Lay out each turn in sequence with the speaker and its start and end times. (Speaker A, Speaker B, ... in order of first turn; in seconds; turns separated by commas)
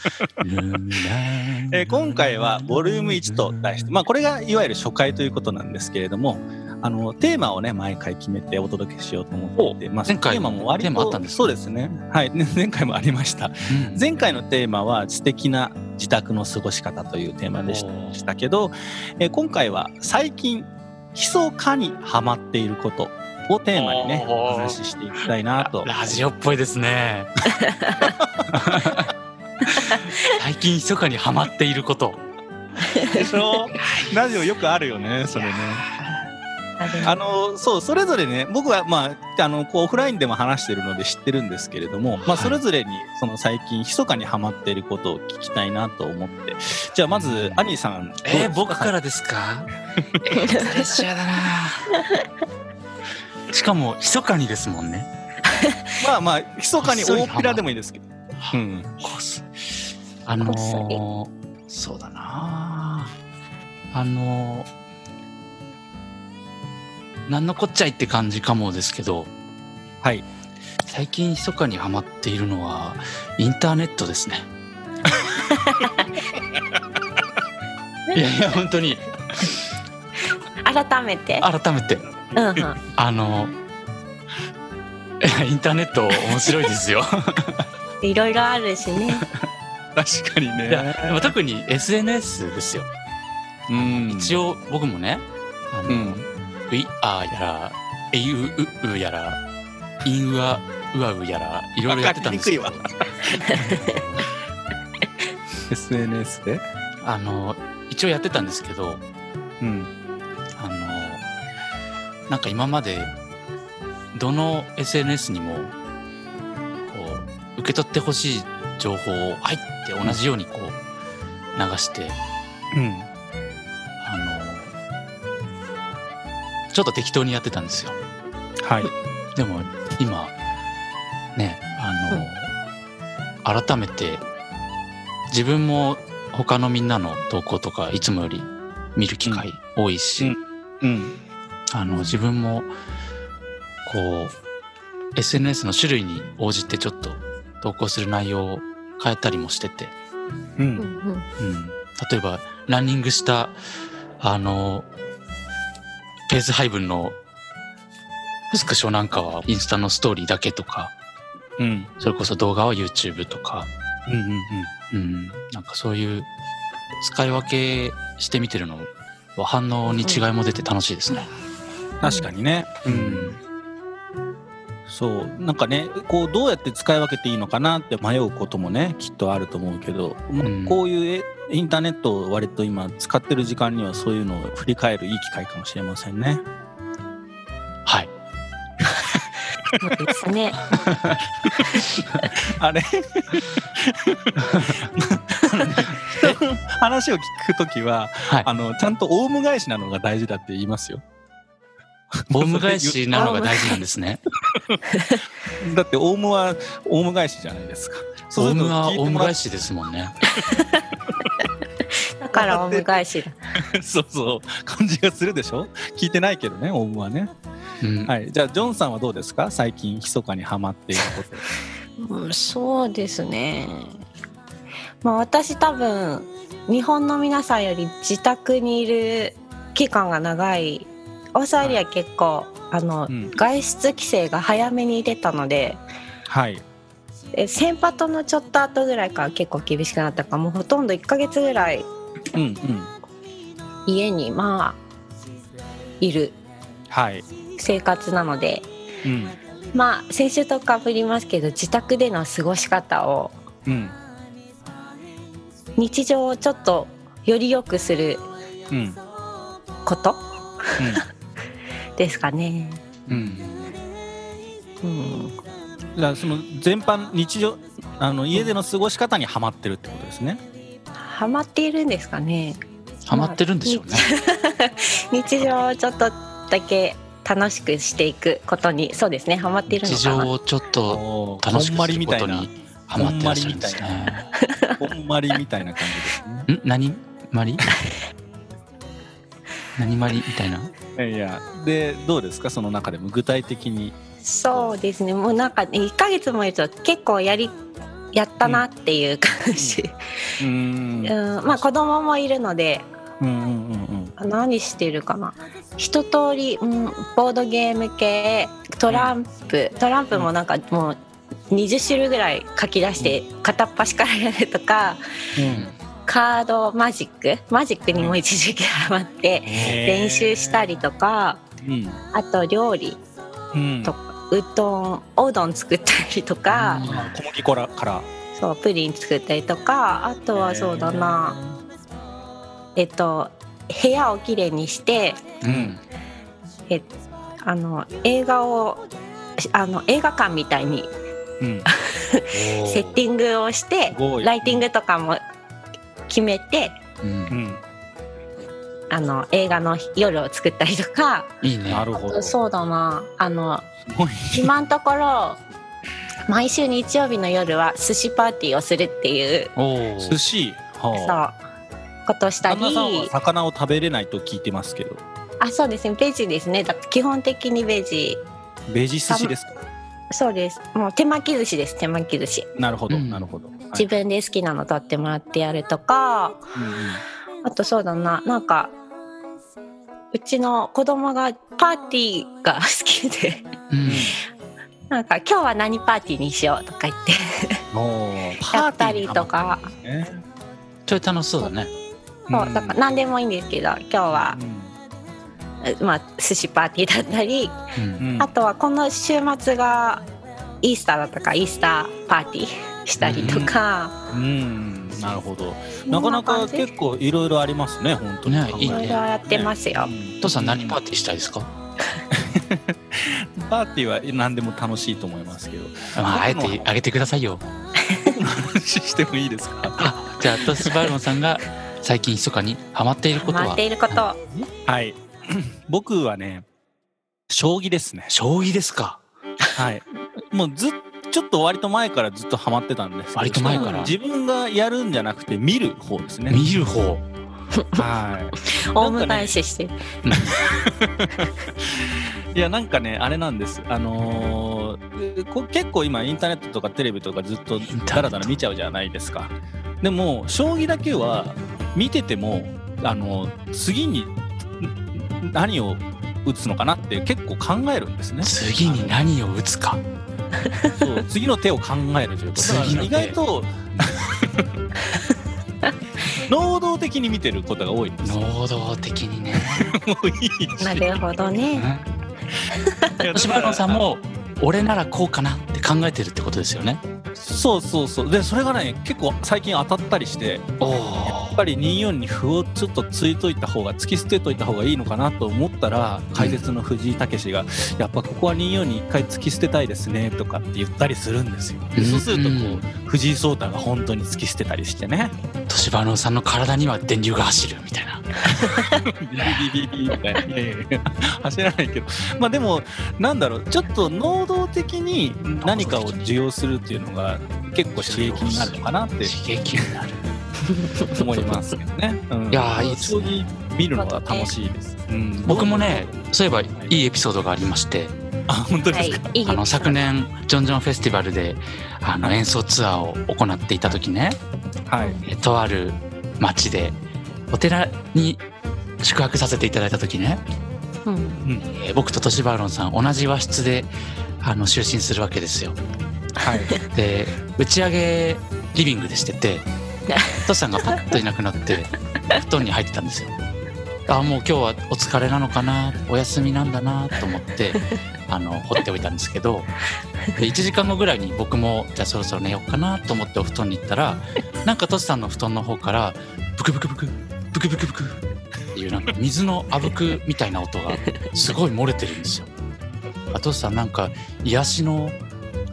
Speaker A: 0.4-3.9, Speaker B: 1.7-26.2, Speaker A: 9.6-11.4, Speaker A: 13.7-14.0, Speaker A: 17.7-18.2, Speaker A: 23.8-24.8, Speaker A: 25.6-27.3, Speaker C: 27.7-28.0, Speaker B: 28.2-28.8, Speaker A: 28.5-29.1, Speaker A: 29.7-32.2, Speaker C: 32.9-33.3, Speaker B: 33.0-35.9, Speaker C: 36.8-37.1, Speaker B: 37.0-48.9, Speaker A: 42.2-42.6, Speaker A: 47.1-47.6, Speaker A: 48.2-52.0, Speaker C: 50.4-50.9, Speaker A: 53.5-55.1, Speaker C: 55.5-55.8, Speaker B: 56.0-59.0, Speaker A: 56.8-57.6, Speaker A: 58.4-59.5, Speaker A: 60.3-63.1, Speaker C: 60.4-61.0, Speaker A: 63.9-64.7, Speaker A: 67.3-69.3, Speaker B: 70.0-70.3, Speaker A: 70.8-74.5, Speaker C: 75.5-75.9, Speaker A: 78.1-79.6, Speaker C: 80.6-81.5, Speaker A: 81.4-82.1, Speaker B: 82.3-82.6, Speaker C: 82.3-82.8, Speaker A: 82.9-83.5, Speaker A: 85.2-87.5, Speaker C: 88.0-89.3, Speaker B: 90.0-91.3, Speaker A: 90.7-92.9, Speaker B: 93.7-94.4, Speaker A: 93.7-99.4, Speaker B: 95.9-96.3, Speaker A: 100.0-102.9, Speaker B: 101.9-103.8, Speaker A: 103.5-104.2, Speaker B: 105.7-106.6, Speaker A: 107.0-109.0, Speaker B: 109.6-109.9, Speaker A: 110.6-111.2, Speaker A: 112.3-113.1, Speaker A: 114.1-115.7, Speaker A: 116.8-120.8, Speaker A: 121.6-122.2, Speaker B: 122.7-123.1, Speaker A: 124.0-124.7, Speaker A: 126.7-128.0, Speaker B: 128.6-128.9, Speaker A: 129.3-130.3, Speaker A: 131.3-132.5, Speaker A: 133.4-134.2, Speaker A: 135.3-140.3, Speaker B: 140.2-141.2, Speaker A: 141.7-142.7, Speaker C: 141.9-142.2, Speaker A: 143.8-144.3, Speaker A: 145.2-149.9, Speaker B: 150.6-150.9, Speaker C: 150.8-151.3, Speaker A: 151.4-153.6, Speaker A: 154.2-154.9, Speaker A: 156.3-157.2, Speaker A: 158.5-160.9, Speaker B: 161.6-161.9, Speaker A: 162.0-163.7, Speaker B: 164.1-164.7, Speaker A: 164.9-166.3, Speaker A: 167.0-171.3, Speaker B: 172.0-173.4, Speaker A: 172.9-173.4, Speaker B: 174.9-186.4, Speaker A: 180.4-180.8, Speaker A: 187.9-188.1, Speaker C: 189.8-190.8, Speaker B: 190.8-201.0, Speaker A: 190.9-191.2, Speaker A: 194.4-194.8, Speaker B: 202.3-203.5, Speaker A: 202.3-204.2, Speaker C: 203.1-203.8, Speaker B: 204.5-204.8, Speaker C: 204.9-205.2, Speaker B: 205.6-209.4, Speaker A: 208.3-210.2, Speaker C: 210.5-210.8, Speaker C: 212.2-213.4, Speaker B: 212.3-213.0, Speaker B: 213.6-217.3, Speaker A: 217.8-218.1, Speaker B: 218.1-221.5, Speaker C: 222.0-224.0, Speaker C: 225.0-235.8, Speaker B: 236.3-236.6, Speaker C: 237.3-241.9, Speaker B: 242.3-242.9, Speaker C: 243.9-244.8, Speaker C: 246.0-246.4, Speaker B: 246.9-247.2, Speaker C: 247.6-248.7, Speaker B: 249.1-249.3, Speaker C: 249.7-253.4, Speaker B: 253.7-254.0, Speaker C: 255.8-258.3, Speaker B: 258.7-259.0, Speaker C: 259.9-261.0, Speaker B: 260.8-261.0, Speaker C: 262.0-262.8, Speaker A: 263.1-263.8, Speaker B: 263.1-263.4, Speaker C: 264.8-265.4, Speaker B: 266.0-270.4, Speaker C: 271.0-280.3, Speaker A: 273.1-274.1, Speaker A: 279.7-284.3, Speaker B: 280.9-284.0, Speaker C: 284.4-284.8, Speaker B: 284.8-286.5, Speaker A: 286.5-287.7, Speaker A: 289.8-290.7, Speaker B: 291.0-294.0, Speaker C: 294.2-297.6, Speaker C: 298.1-300.4, Speaker B: 299.5-299.8, Speaker B: 300.4-301.6, Speaker C: 301.0-302.9, Speaker B: 303.2-304.1, Speaker C: 304.2-311.0, Speaker C: 311.5-315.0, Speaker B: 315.4-315.7, Speaker C: 316.1-321.4, Speaker B: 317.9-318.2, Speaker A: 319.5-319.8, Speaker B: 319.6-320.7, Speaker B: 321.6-322.0, Speaker C: 322.1-323.0, Speaker B: 323.5-323.9, Speaker C: 323.9-326.9, Speaker A: 326.5-327.1, Speaker B: 326.8-328.1, Speaker C: 328.4-331.4, Speaker B: 330.4-331.6, Speaker C: 332.8-335.3, Speaker A: 335.4-335.8, Speaker B: 335.5-335.8, Speaker C: 337.4-338.8, Speaker C: 339.4-340.9, Speaker B: 341.4-341.7, Speaker C: 341.7-345.2, Speaker A: 342.3-343.0, Speaker B: 343.9-344.6, Speaker C: 346.1-346.8, Speaker A: 347.0-347.4, Speaker B: 347.3-347.6, Speaker C: 348.9-351.4, Speaker A: 351.4-351.9, Speaker B: 351.7-352.4, Speaker C: 351.9-353.7, Speaker B: 353.9-354.5, Speaker C: 354.3-355.4, Speaker C: 356.3-359.5, Speaker A: 359.6-360.2, Speaker B: 360.0-361.2, Speaker C: 360.9-361.4, Speaker C: 362.1-363.1, Speaker B: 362.5-365.0, Speaker C: 365.4-368.2, Speaker B: 368.7-369.6, Speaker C: 370.1-372.5, Speaker B: 372.6-373.9, Speaker A: 372.9-373.3, Speaker C: 373.8-376.5, Speaker B: 376.6-377.0, Speaker C: 377.4-378.7, Speaker C: 380.1-383.5, Speaker A: 383.7-384.1, Speaker B: 383.9-384.2, Speaker C: 384.9-387.6, Speaker B: 387.7-390.2, Speaker C: 388.5-389.7, Speaker A: 390.9-391.7, Speaker B: 392.3-392.8, Speaker C: 392.3-394.4, Speaker B: 394.1-394.7, Speaker C: 395.6-397.6, Speaker A: 397.8-398.1, Speaker B: 398.0-398.3, Speaker C: 398.2-400.1, Speaker C: 400.6-404.0, Speaker A: 403.0-403.5, Speaker B: 403.0-403.5, Speaker B: 404.1-410.8, Speaker C: 405.9-406.7, Speaker A: 408.3-409.0, Speaker C: 408.6-409.9, Speaker A: 410.2-411.5, Speaker B: 412.1-416.7, Speaker A: 415.9-417.4, Speaker C: 417.9-418.1, Speaker B: 418.1-419.9, Speaker A: 419.8-424.0, Speaker C: 423.2-424.2, Speaker B: 424.6-426.5, Speaker B: 427.3-428.1, Speaker A: 428.1-429.0, Speaker B: 429.6-436.4, Speaker A: 433.1-434.0, Speaker C: 433.5-433.9, Speaker A: 436.3-437.1, Speaker C: 437.6-437.9, Speaker B: 437.8-439.4, Speaker C: 438.4-439.8, Speaker A: 440.0-440.4, Speaker B: 440.2-459.0, Speaker A: 447.7-448.4, Speaker A: 458.2-459.8, Speaker C: 460.4-460.8, Speaker B: 460.8-464.5, Speaker A: 462.4-463.2, Speaker B: 466.2-468.2, Speaker A: 468.0-469.8, Speaker B: 469.5-471.2, Speaker C: 470.6-471.7, Speaker A: 471.5-471.9, Speaker C: 472.6-472.9, Speaker B: 473.0-473.9, Speaker A: 473.1-476.8, Speaker B: 477.2-480.5, Speaker A: 480.6-481.4, Speaker B: 481.1-495.1, Speaker A: 486.1-486.4, Speaker A: 491.8-492.7, Speaker A: 495.5-498.1, Speaker B: 498.3-509.1, Speaker A: 505.4-506.1, Speaker A: 507.8-510.1, Speaker C: 510.5-510.9, Speaker B: 510.9-516.0, Speaker A: 512.3-513.3, Speaker C: 513.8-514.3, Speaker A: 515.2-517.9, Speaker B: 518.3-519.1, Speaker C: 518.7-519.8, Speaker A: 519.2-524.2, Speaker B: 524.7-525.0, Speaker A: 525.0-526.8, Speaker A: 527.3-528.2, Speaker A: 528.8-530.2, Speaker C: 530.9-531.2, Speaker B: 531.2-531.5, Speaker A: 531.5-535.6, Speaker B: 536.2-536.6, Speaker A: 536.7-539.5, Speaker C: 539.9-540.2, Speaker A: 540.2-543.1, Speaker A: 543.9-549.5, Speaker A: 550.1-558.0, Speaker A: 558.5-562.3, Speaker A: 563.1-565.0